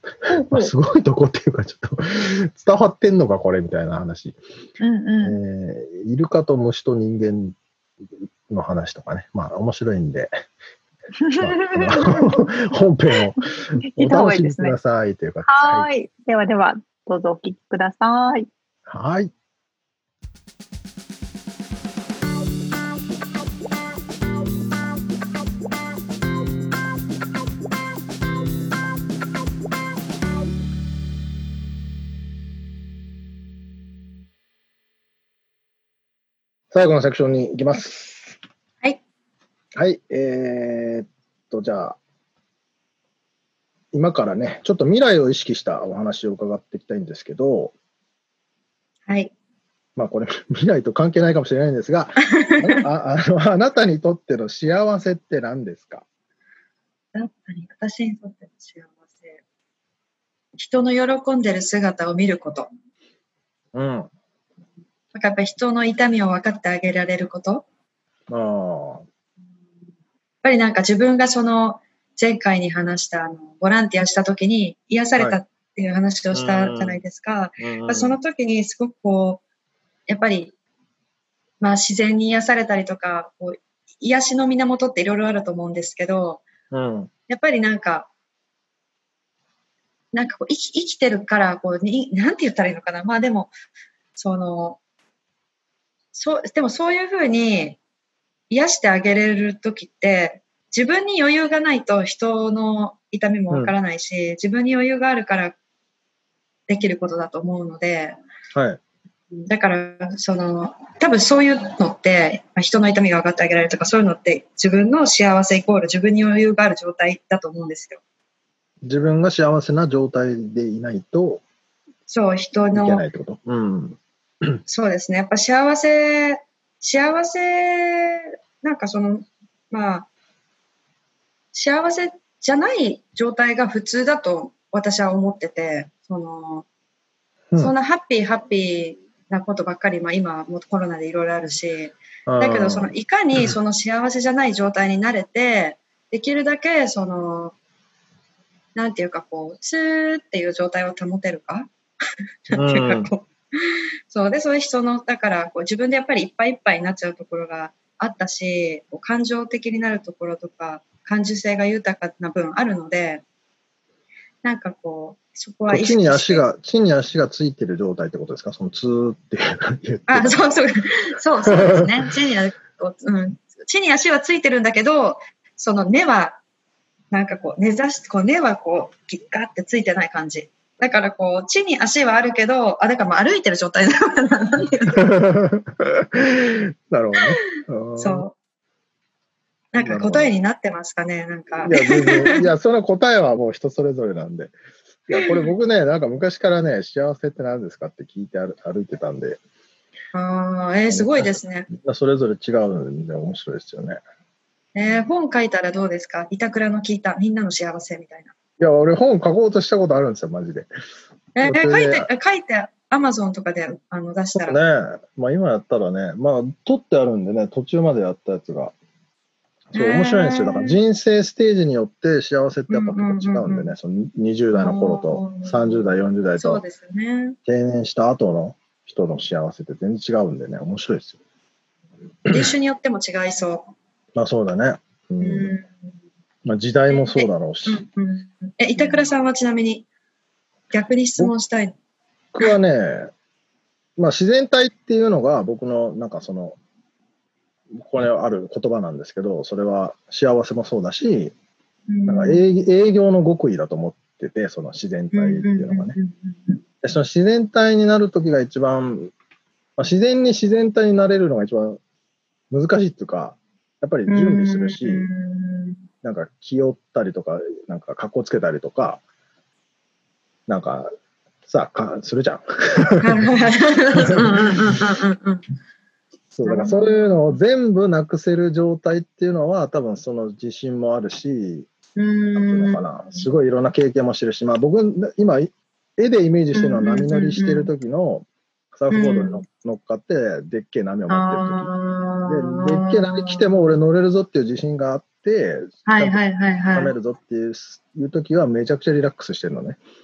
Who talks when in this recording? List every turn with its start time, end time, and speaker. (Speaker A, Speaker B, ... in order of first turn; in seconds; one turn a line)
Speaker A: 0.3-0.7
Speaker B: 0.4-4.4
Speaker A: 4.8-5.4
Speaker B: 5.2-7.5
Speaker B: 8.5-10.3
Speaker A: 11.2-12.5
Speaker B: 11.4-15.9
Speaker A: 13.8-14.8
Speaker A: 15.4-18.5
Speaker B: 18.9-19.3
Speaker B: 36.7-38.4
Speaker B: 39.8-42.0
Speaker B: 43.9-47.7
Speaker B: 50.0-56.0
Speaker C: 52.2-52.8
Speaker C: 57.1-59.4
Speaker C: 60.6-62.7
Speaker B: 63.7-64.1
Speaker C: 65.1-67.6
Speaker B: 68.3-69.0
Speaker C: 70.4-79.4
Speaker B: 76.3-77.0
Speaker B: 77.6-78.2
Speaker C: 80.1-80.5
Speaker C: 81.6-86.4
Speaker B: 86.7-87.1
Speaker C: 87.3-88.1
Speaker C: 90.1-93.5
Speaker C: 94.2-94.8
Speaker C: 96.1-97.8
Speaker C: 98.5-105.6
Speaker C: 106.7-108.2
Speaker B: 108.5-108.8
Speaker C: 109.4-118.0
Speaker B: 118.8-121.4
Speaker C: 122.1-123.0
Speaker B: 122.7-124.6
Speaker C: 124.7-130.1
Speaker C: 131.5-136.7
Speaker C: 137.6-147.5
Speaker B: 142.3-142.9
Speaker C: 148.7-151.7
Speaker C: 152.5-163.2
Speaker B: 152.5-153.1
Speaker C: 164.4-166.4
Speaker B: 165.7-170.4
Speaker C: 170.1-176.4
Speaker B: 171.5-171.9
Speaker C: 177.1-185.0
Speaker B: 184.9-188.2
Speaker C: 188.0-188.3
Speaker C: 189.7-192.5
Speaker B: 189.8-190.3
Speaker B: 191.6-194.5
Speaker B: 195.1-199.4
Speaker C: 195.1-195.5
Speaker C: 200.1-201.7
Speaker B: 200.9-204.0
Speaker C: 204.7-208.3
Speaker B: 208.6-210.7
Speaker C: 211.3-214.6
Speaker B: 211.4-212.1
Speaker B: 214.3-218.7
Speaker B: 219.7-226.6
Speaker C: 219.7-220.8
Speaker C: 222.7-223.7
Speaker C: 224.5-225.8
Speaker C: 226.4-227.4
Speaker B: 227.4-231.2
Speaker C: 232.2-233.7
Speaker B: 232.3-232.5
Speaker B: 234.1-235.5
Speaker C: 235.2-235.7
Speaker B: 236.4-237.8
Speaker C: 236.9-239.8
Speaker B: 238.8-239.1
Speaker C: 240.7-241.7
Speaker B: 242.3-243.1
Speaker B: 244.0-246.6
Speaker B: 247.7-251.3
Speaker C: 251.9-252.4
Speaker B: 252.1-255.9
Speaker C: 255.1-256.6
Speaker B: 256.8-259.1
Speaker B: 259.8-261.8
Speaker B: 262.5-265.1
Speaker C: 264.1-265.8
Speaker B: 266.0-269.0
Speaker B: 270.5-270.9
Speaker B: 271.4-273.3
Speaker C: 273.0-275.4
Speaker B: 274.0-274.6
Speaker B: 276.3-281.7
Speaker C: 276.4-276.9
Speaker C: 281.9-283.2
Speaker B: 282.3-291.7
Speaker C: 286.5-287.7
Speaker C: 288.9-289.4
Speaker C: 291.1-293.5
Speaker B: 292.3-296.2
Speaker C: 295.9-296.9
Speaker B: 296.7-299.8